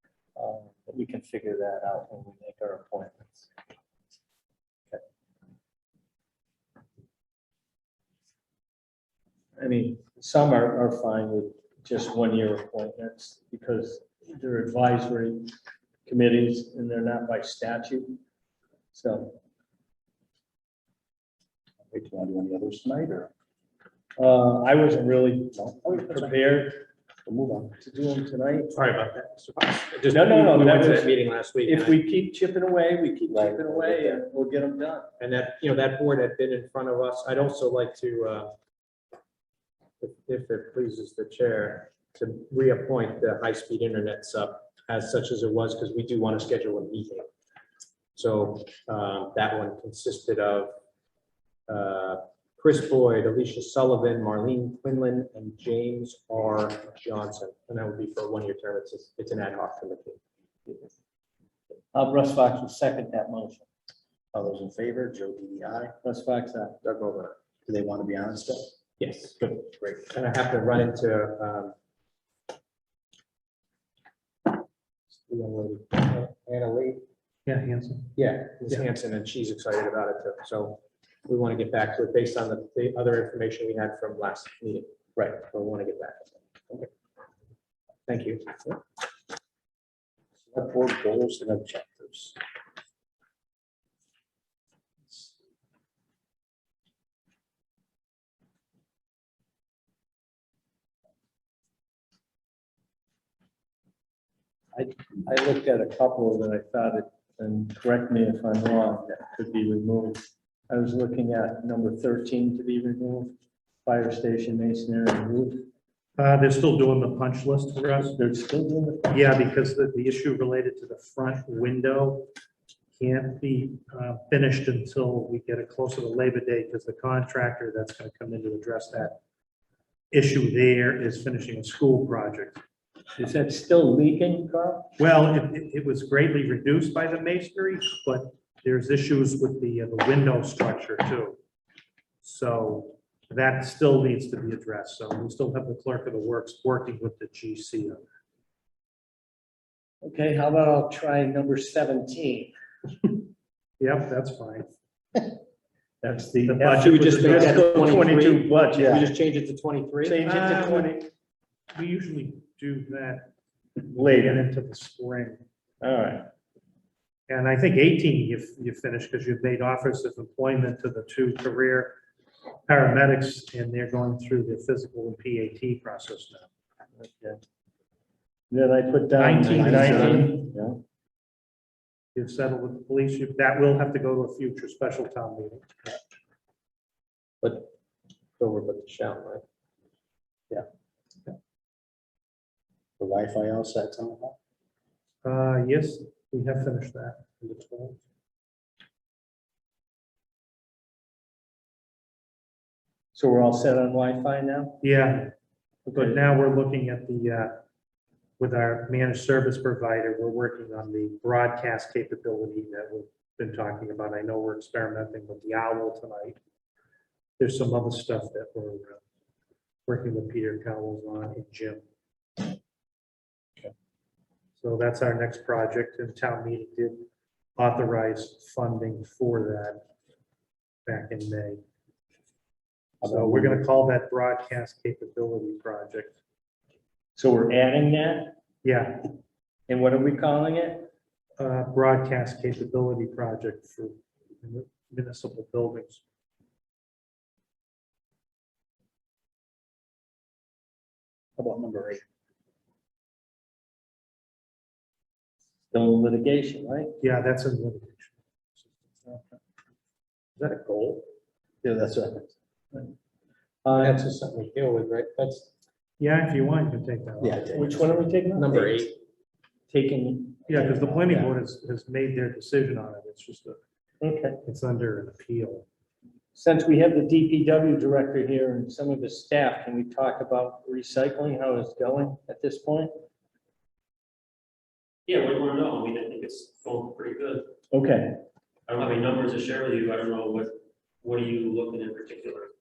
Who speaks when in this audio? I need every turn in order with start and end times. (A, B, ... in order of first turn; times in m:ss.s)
0:00.4-0:03.5 A
0:09.6-0:15.5 A
0:16.0-0:18.2 A
0:18.9-0:19.4 A
0:21.9-0:23.3 B
0:24.2-0:26.9 A
0:25.6-0:26.4 B
0:27.2-0:27.8 B
0:27.8-0:28.8 A
0:28.7-0:32.0 C
0:30.1-0:35.1 A
0:33.3-0:34.2 B
0:35.2-0:38.5 C
0:40.0-0:47.3 C
0:48.2-0:50.7 C
0:51.7-1:00.2 C
1:01.9-1:03.7 A
1:04.3-1:05.9 B
1:06.0-1:06.8 A
1:06.8-1:07.4 C
1:07.7-1:08.8 B
1:09.0-1:11.8 C
1:15.1-1:17.0 C
1:17.5-1:18.1 D
1:18.2-1:26.8 C
1:28.1-1:28.7 C
1:30.5-1:32.4 B
1:44.7-1:55.7 A
1:56.2-1:58.2 D
1:58.1-1:59.1 A
1:59.1-2:02.3 D
2:03.0-2:09.2 D
2:10.1-2:12.6 D
2:13.2-2:15.0 A
2:15.0-2:21.4 D
2:22.2-2:28.0 D
2:30.0-2:32.5 A
2:33.8-2:34.7 D
2:36.0-2:39.1 A
2:36.4-2:37.7 D
2:36.8-2:40.2 C
2:38.8-2:39.1 B
2:40.0-2:41.1 A
2:40.3-2:40.9 D
2:41.7-2:43.3 D
2:43.8-2:44.5 A
2:44.1-2:45.4 D
2:45.8-2:46.3 A
2:47.3-2:52.0 D
2:52.7-2:56.5 D
2:57.0-2:57.4 A
2:58.5-3:00.8 A
2:59.2-3:00.4 D
2:59.6-3:00.3 C
3:02.2-3:06.0 D
3:07.4-3:07.7 C
3:08.4-3:09.4 C
3:13.0-3:14.4 B
3:15.2-3:18.0 D
3:23.1-3:24.8 A
3:24.8-3:25.3 D
3:25.9-3:26.2 A
3:26.0-3:27.6 D
3:28.4-3:36.4 D
3:37.4-3:39.0 D
3:39.9-3:41.8 D
3:44.6-3:49.8 D
3:50.9-3:51.6 D
3:53.0-3:56.2 D
3:57.2-3:58.4 A
3:58.6-3:59.1 D
3:59.7-4:00.9 A
4:01.4-4:06.0 D
4:11.4-4:12.0 B
4:15.7-4:17.0 A
4:17.0-4:18.8 D
4:20.4-4:21.0 C
4:21.6-4:22.3 B
4:23.6-4:24.0 A
4:23.7-4:25.5 C
4:26.0-4:27.6 D
4:27.2-4:27.8 B
4:27.5-4:28.9 A
4:28.4-4:28.9 C
4:29.7-4:31.2 A
4:30.5-4:33.6 D
4:34.0-4:34.4 A
4:34.4-4:35.7 D
4:36.4-4:42.9 A
4:45.1-4:47.5 E
4:47.7-4:48.2 A
4:48.7-4:52.5 E